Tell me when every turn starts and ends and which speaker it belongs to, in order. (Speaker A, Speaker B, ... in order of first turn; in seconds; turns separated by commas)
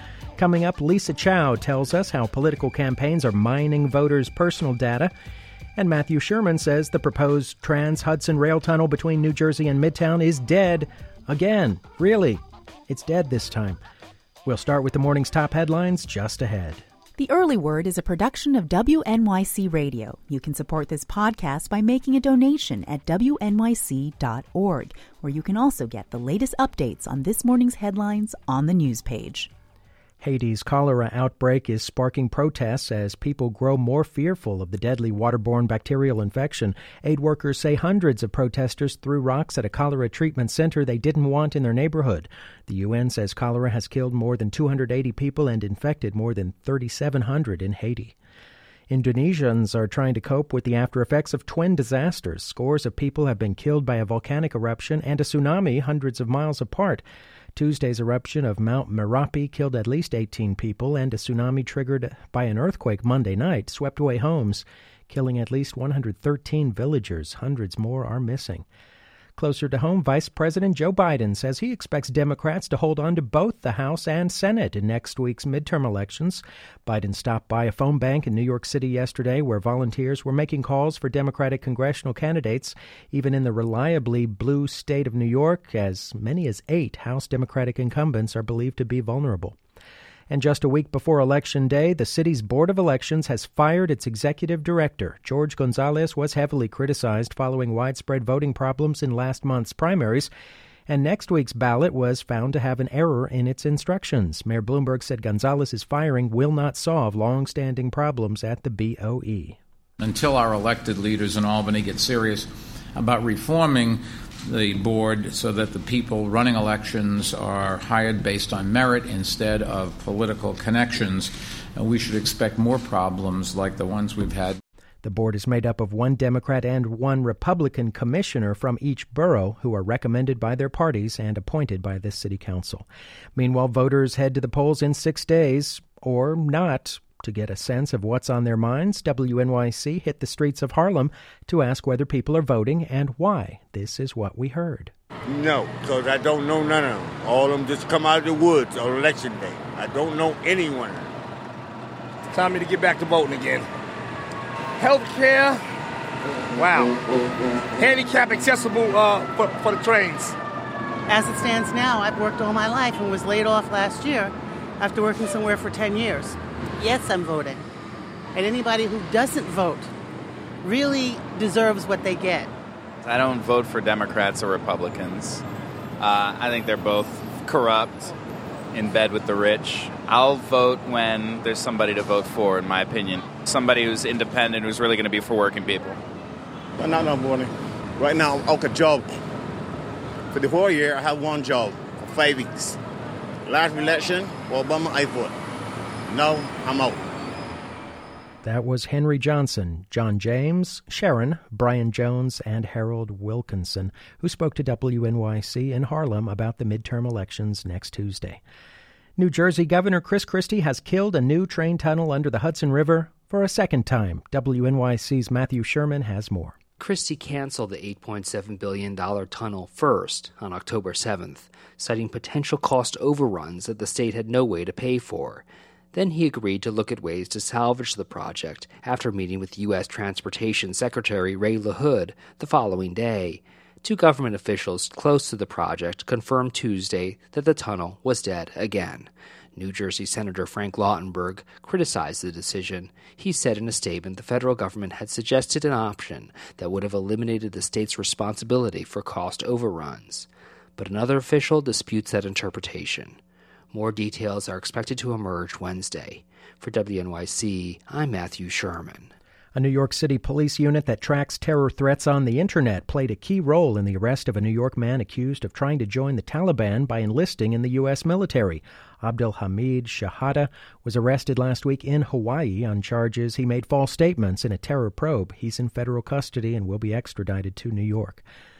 Speaker A: 0.4-5.1, Speaker A: 5.8-13.8, Speaker A: 14.4-16.8, Speaker B: 17.2-29.5, Speaker A: 30.2-48.1, Speaker A: 48.9-57.0, Speaker A: 57.6-68.6, Speaker A: 69.4-89.6, Speaker A: 90.3-100.3, Speaker A: 100.9-109.6, Speaker C: 110.0-124.6, Speaker A: 125.0-132.8, Speaker A: 133.4-144.9, Speaker D: 145.3-146.4, Speaker E: 146.1-150.7, Speaker D: 146.9-147.2, Speaker D: 148.5-148.8, Speaker D: 149.4-149.8, Speaker D: 150.4-151.1, Speaker F: 152.3-153.7, Speaker F: 154.8-155.6, Speaker F: 156.6-156.9, Speaker F: 157.8-160.3, Speaker G: 161.1-167.6, Speaker G: 168.3-169.9, Speaker G: 170.6-172.5, Speaker H: 173.0-175.4, Speaker H: 176.0-178.1, Speaker H: 178.7-186.0, Speaker D: 186.8-189.0, Speaker E: 188.4-188.9, Speaker D: 190.3-192.7, Speaker E: 190.8-192.5, Speaker D: 193.5-195.3, Speaker E: 193.7-194.1, Speaker D: 196.1-197.0, Speaker A: 198.4-208.4, Speaker A: 209.2-216.6, Speaker I: 216.8-253.2, Speaker I: 253.7-259.1, Speaker A: 259.6-278.2